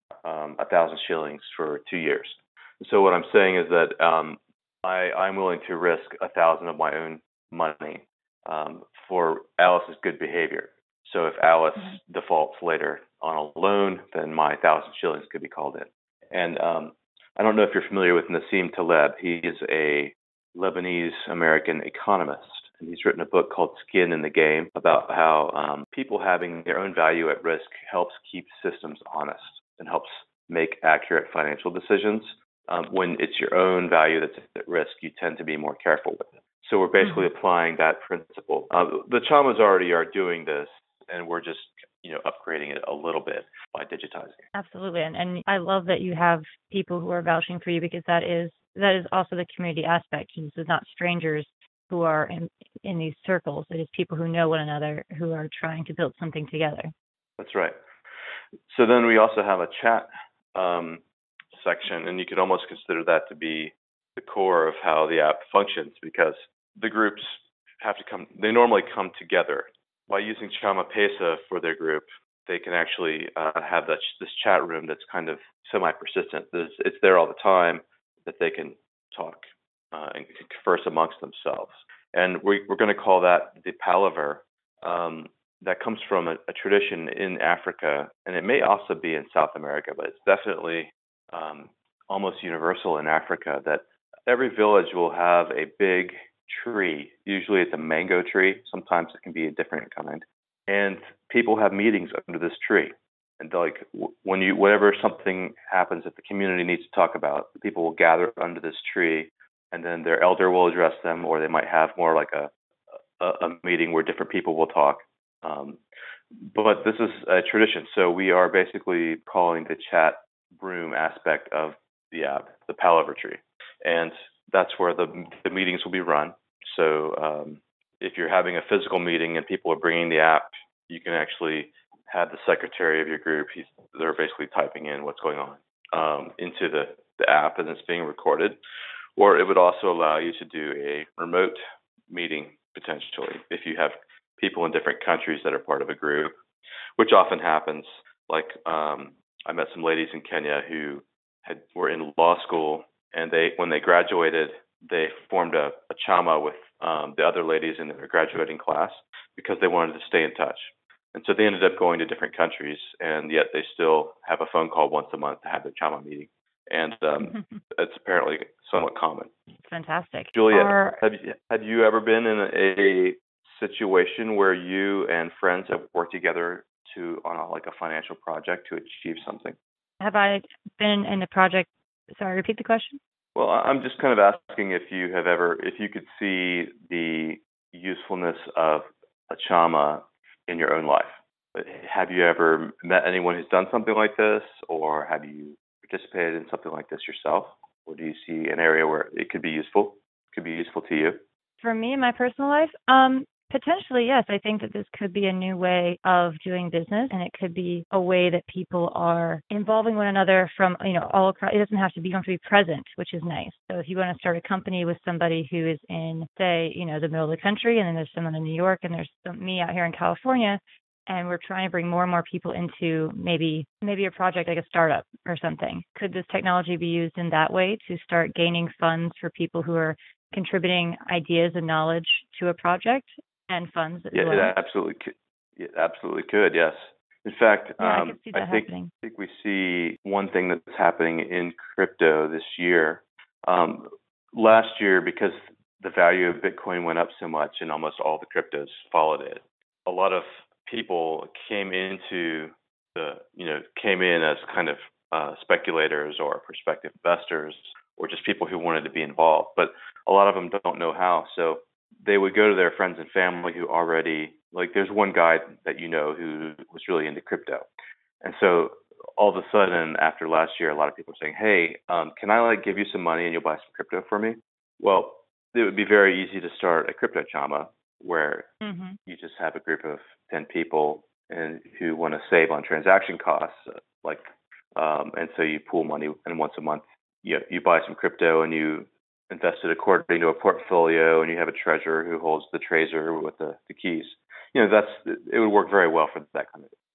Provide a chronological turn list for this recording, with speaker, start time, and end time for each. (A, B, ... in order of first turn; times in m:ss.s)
0:00.2-0:44.4 A
0:44.5-0:56.9 B
0:57.4-0:57.7 A
0:58.7-1:01.0 A
1:01.5-1:52.5 A
1:53.2-1:55.8 A
1:56.4-2:18.6 A
2:19.2-2:21.6 A
2:22.1-2:26.3 A
2:27.0-2:49.3 A
2:49.6-2:51.0 B
2:50.3-2:59.6 A
3:00.0-3:03.0 B
3:03.3-3:21.2 A
3:21.6-3:54.5 B
3:54.1-4:27.6 A
3:57.8-3:58.9 B
4:28.2-4:38.5 A
4:38.6-4:39.0 B
4:39.1-4:56.7 A